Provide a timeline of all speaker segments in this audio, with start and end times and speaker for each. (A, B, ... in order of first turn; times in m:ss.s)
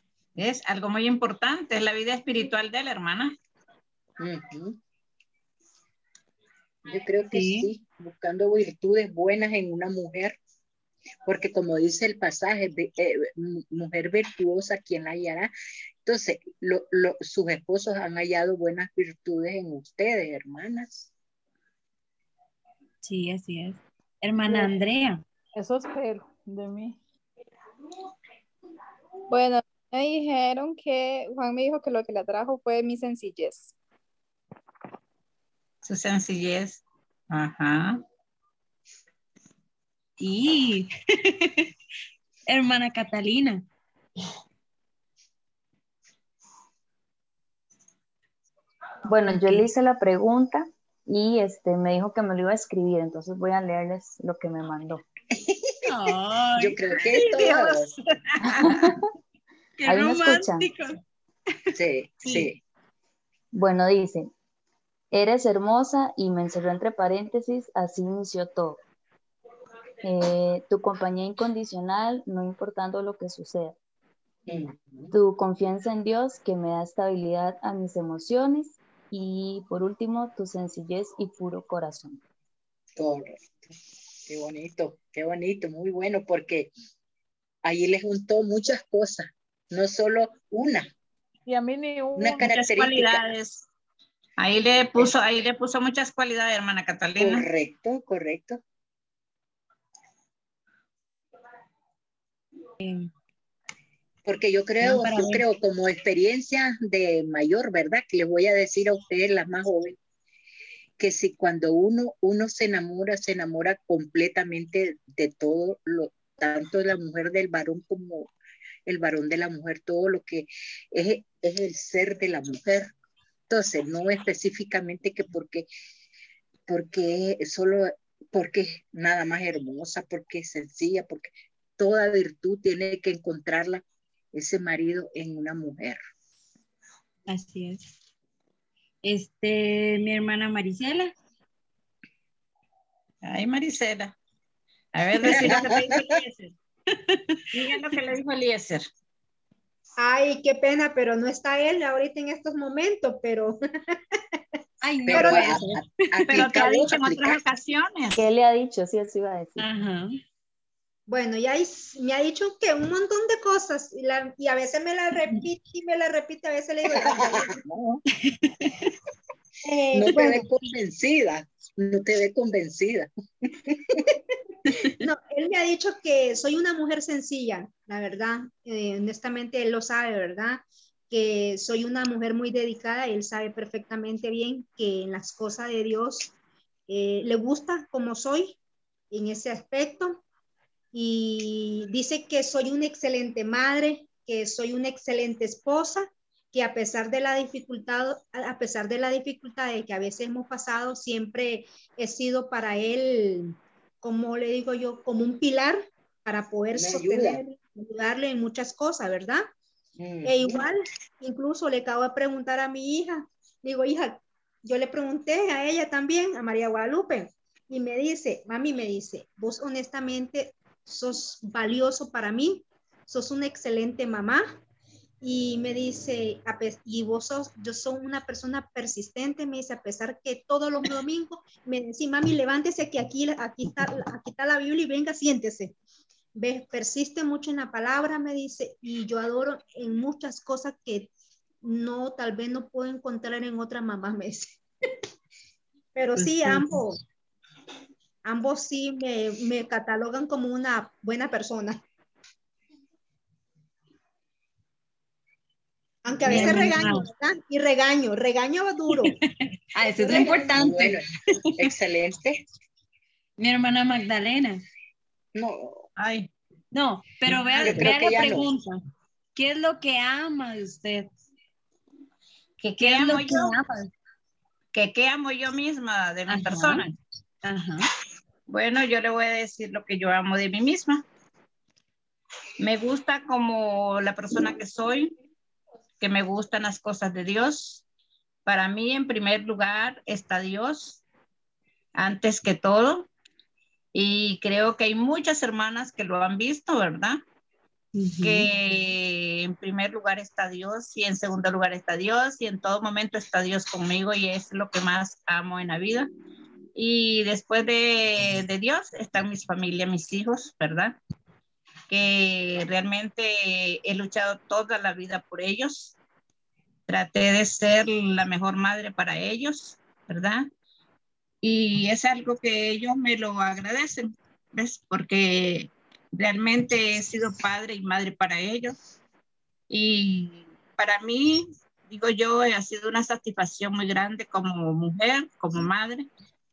0:00.4-0:03.4 A
0:04.2-0:04.8 B
0:06.9-0:10.4 B
0:07.3-0:07.7 C
0:11.2-0:15.5 B
0:16.0-0:21.1 B
0:23.0-0:25.2 C
0:25.6-0:27.0 D
0:29.3-0:33.7 E
0:35.8-0:37.9 A
0:40.2-0:41.7 C
0:42.5-0:43.6 C
0:49.1-0:55.0 F
0:49.3-0:49.7 C
0:55.4-0:55.8 B
0:55.8-0:57.8 C
0:56.6-0:58.0 B
0:58.5-0:59.0 F
0:59.8-1:01.0 C
0:59.9-1:00.7 F
1:01.7-1:02.6 B
1:03.5-1:04.3 F
1:05.1-1:08.8 F
1:10.0-1:13.8 F
1:14.5-1:15.1 B
1:15.1-1:22.2 F
1:23.0-1:23.7 B
1:24.3-1:26.7 B
1:27.6-1:30.9 B
1:31.5-1:32.4 D
1:32.2-1:33.3 B
1:32.4-1:33.6 A
1:34.4-1:37.5 A
1:37.2-1:38.6 B
1:42.8-1:43.1 C
1:44.2-1:50.0 B
1:44.8-1:45.4 C
1:51.0-1:58.3 B
1:58.9-2:02.9 B
2:03.5-2:05.7 B
2:06.7-2:13.8 B
2:14.3-2:16.0 B
2:17.3-2:18.0 C
2:19.0-2:21.1 C
2:23.2-2:24.1 A
2:25.0-2:26.5 A
2:25.2-2:25.5 C
2:25.2-2:26.1 B
2:27.1-2:27.8 C
2:27.5-2:28.8 A
2:30.0-2:34.4 G
2:34.8-2:35.8 C
2:35.1-2:37.4 B
2:35.1-2:35.5 G
2:36.3-2:38.2 A
2:38.2-2:39.7 F
2:39.6-2:40.2 C
2:41.1-2:47.6 G
2:46.9-2:48.0 B
2:48.3-2:48.8 C
2:49.6-2:50.5 G
2:49.9-2:53.1 B
2:53.7-2:54.0 B
2:55.0-3:06.3 G
3:06.9-3:08.6 G
3:09.1-3:10.2 G
3:10.9-3:29.4 G
3:26.7-3:27.4 B
3:30.0-3:30.7 B
3:30.2-3:44.6 G
3:45.2-3:55.7 G
3:56.4-4:01.1 G
4:01.6-4:04.6 G
4:06.0-4:07.0 G
4:06.2-4:06.8 C
4:08.2-4:11.8 G
4:16.0-4:19.2 G
4:16.3-4:17.1 C
4:19.7-4:21.0 C
4:20.0-4:20.5 G
4:20.0-4:22.4 B
4:23.4-4:24.6 C
4:25.4-4:25.9 B
4:26.0-4:26.3 A
4:26.7-4:28.8 C
4:27.3-4:28.5 B
4:29.4-4:31.1 C
4:32.6-4:33.5 A
4:32.8-4:33.9 C
4:34.7-4:36.9 A
4:36.3-4:36.8 C
4:37.4-4:37.9 C
4:38.5-4:41.0 A
4:42.6-4:45.1 A
4:46.0-4:47.8 A
4:48.5-4:51.0 A
4:52.0-4:53.1 A
4:53.9-4:57.2 A
4:58.0-4:58.5 C
4:58.2-5:06.1 A
5:06.8-5:11.0 A
5:11.9-5:16.0 A
5:16.9-5:20.5 A
5:21.4-5:28.8 A
5:29.7-5:36.1 A